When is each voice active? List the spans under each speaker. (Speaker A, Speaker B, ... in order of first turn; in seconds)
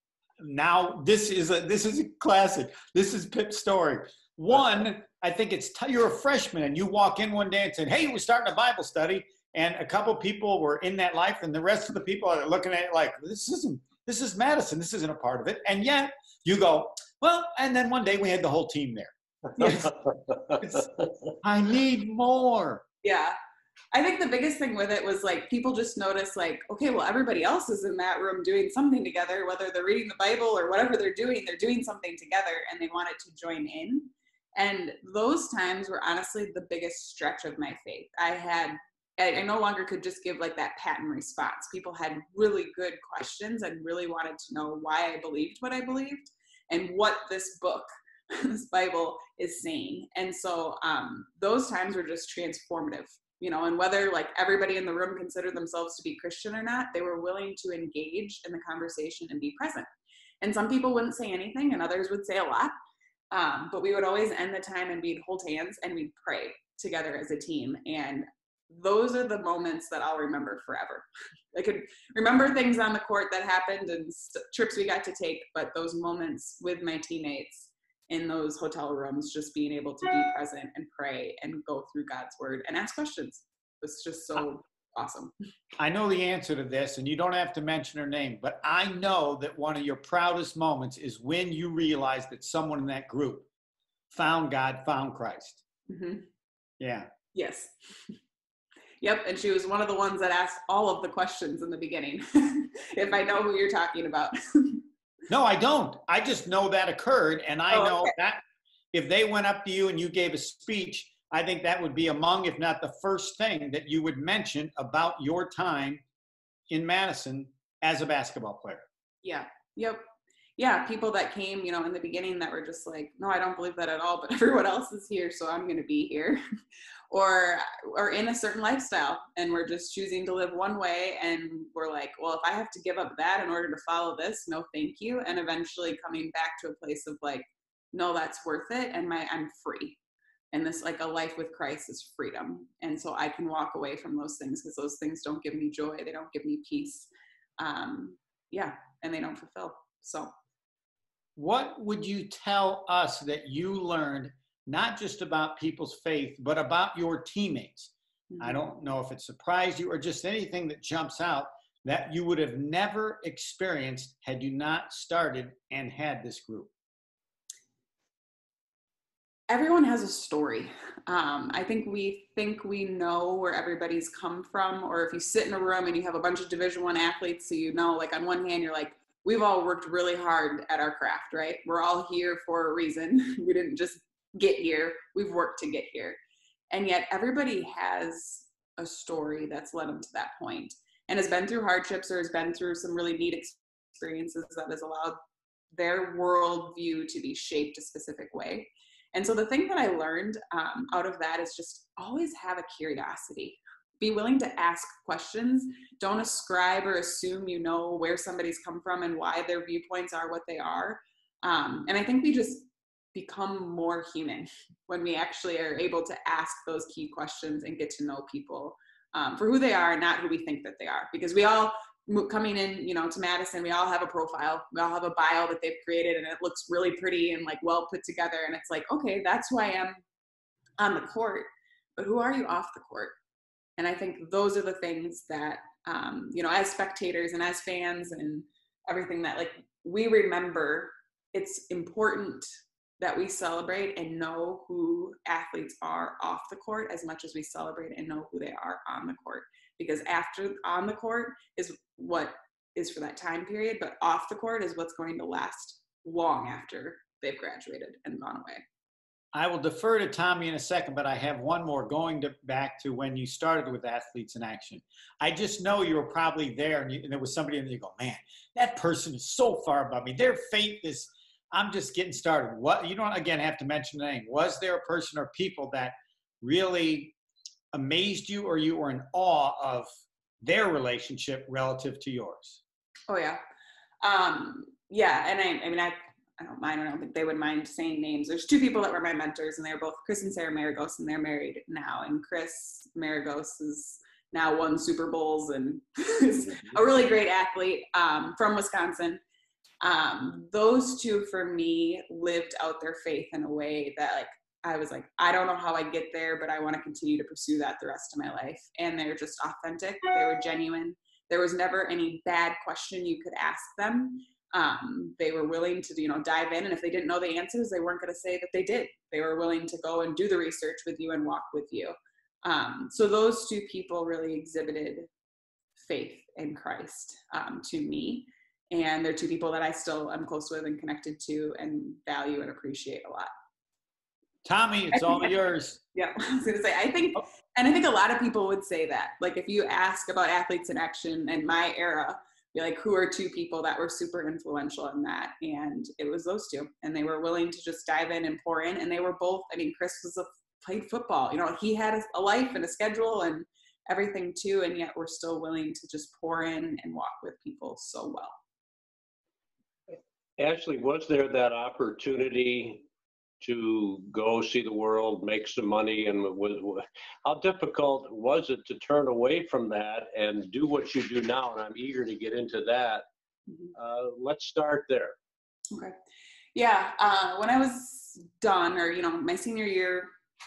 Speaker A: 0.4-20.0, 20.6-22.8, 85.8-93.5, 94.1-95.6, 96.8-97.1, 105.3-108.4, 108.9-116.0, 116.7-118.9, 151.4-166.7, 259.3-277.1, 277.7-279.9, 280.4-282.6, 334.4-335.8
Speaker B: 19.6-19.9, 23.0-23.4, 23.9-59.9, 60.4-62.7, 63.3-85.3, 95.9-96.2, 97.3-97.7, 99.0-104.8, 107.7-108.1, 119.2-120.0, 120.6-126.4, 127.1-140.0, 140.5-150.3, 158.3-158.6, 169.5-186.2, 186.7-195.2, 195.7-230.0, 230.8-233.2, 233.8-242.5, 243.0-258.6, 283.1-283.4, 284.0-299.2, 299.8-325.1, 325.8-333.3, 334.9-335.3, 335.9-358.4, 376.6-380.1
Speaker C: 360.4-362.9, 363.4-373.1, 373.8-375.2